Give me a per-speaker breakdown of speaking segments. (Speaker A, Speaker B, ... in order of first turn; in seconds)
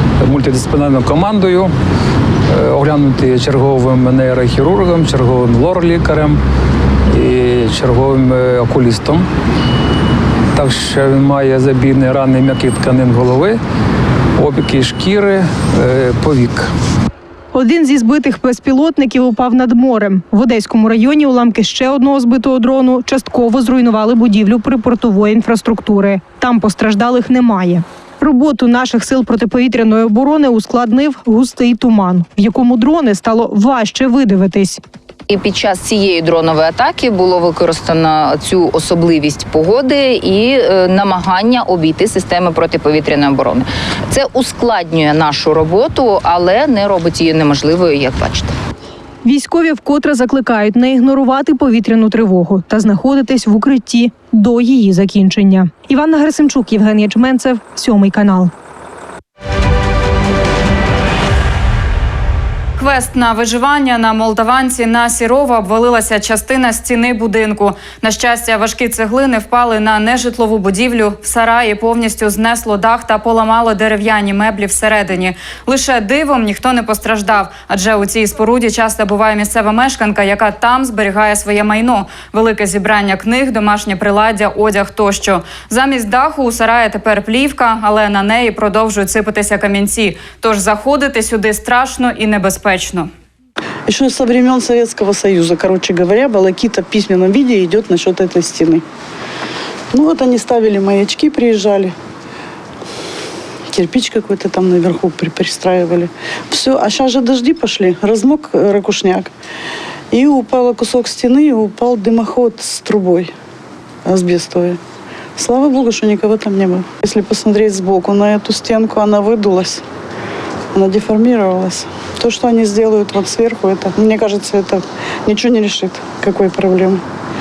Speaker A: 0.2-1.7, 2.5-6.4, 7.1-9.3, 10.5-13.6, 14.4-16.7
Speaker B: 17.5-34.8, 49.2-58.5
Speaker C: 35.3-48.5
Speaker D: 62.8-93.1
Speaker E: 93.9-98.8, 99.9-101.9, 103.7-109.3, 110.1-113.3, 114.0-114.8, 115.4-119.8, 120.7-127.0